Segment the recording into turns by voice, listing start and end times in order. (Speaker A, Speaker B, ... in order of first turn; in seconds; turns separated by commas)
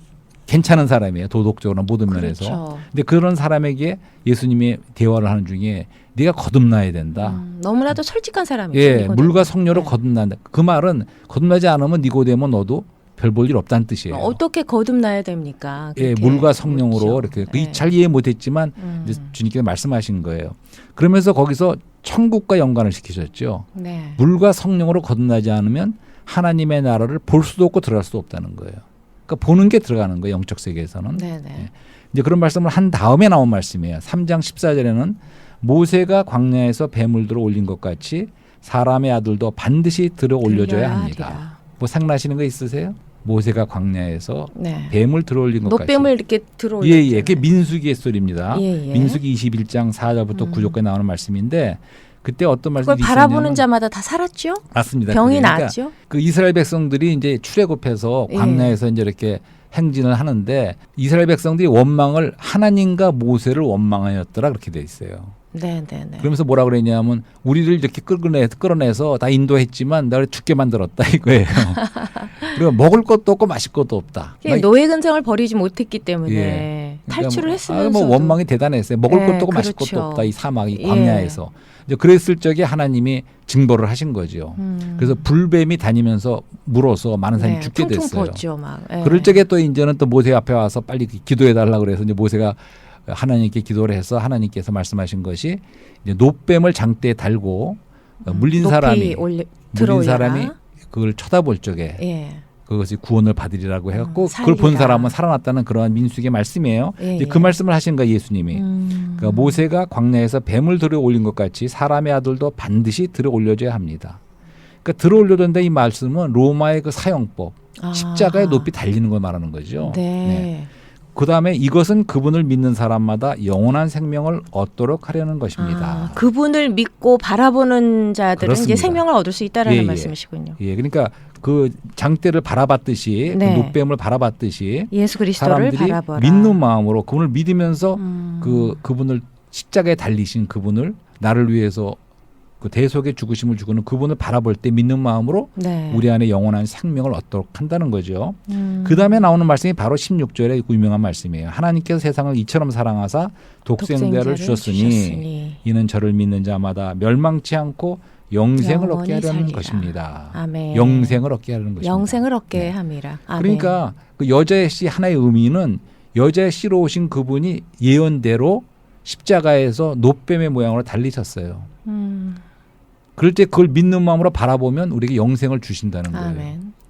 Speaker A: 0.5-7.4, Speaker B: 2.1-2.9, Speaker B: 7.2-9.9, Speaker A: 8.7-14.4, Speaker B: 14.1-17.9, Speaker A: 15.9-46.1, Speaker B: 18.8-19.3, Speaker B: 23.7-24.2, Speaker B: 31.1-31.7, Speaker B: 40.4-41.6, Speaker B: 44.5-45.0, Speaker B: 45.6-47.5, Speaker A: 46.8-53.6, Speaker B: 48.5-49.2, Speaker B: 50.3-50.7, Speaker B: 52.8-55.9, Speaker A: 54.7-65.3, Speaker B: 58.3-58.8, Speaker B: 65.5-66.3, Speaker A: 66.2-74.7, Speaker B: 71.8-72.3, Speaker B: 74.4-78.4, Speaker A: 76.2-88.4, Speaker B: 79.1-81.4, Speaker B: 84.6-85.2, Speaker B: 87.4-89.4, Speaker A: 89.0-102.0, Speaker B: 98.2-100.5, Speaker B: 102.0-102.4, Speaker A: 102.6-108.6, Speaker B: 103.9-105.1, Speaker B: 107.0-107.5, Speaker B: 108.5-109.6, Speaker A: 109.2-114.2, Speaker A: 114.8-120.5, Speaker B: 117.8-118.7, Speaker B: 119.8-120.7, Speaker A: 121.1-126.2, Speaker B: 125.5-130.6, Speaker A: 128.4-129.0, Speaker A: 129.6-142.0, Speaker B: 133.3-133.7, Speaker B: 134.9-136.6, Speaker B: 138.0-138.8, Speaker A: 142.6-162.7, Speaker B: 145.6-146.1, Speaker B: 148.5-149.2, Speaker B: 153.8-155.6, Speaker B: 158.6-161.2, Speaker B: 161.8-163.8, Speaker A: 163.4-171.7, Speaker B: 171.8-172.4, Speaker A: 173.2-176.5, Speaker B: 176.1-176.7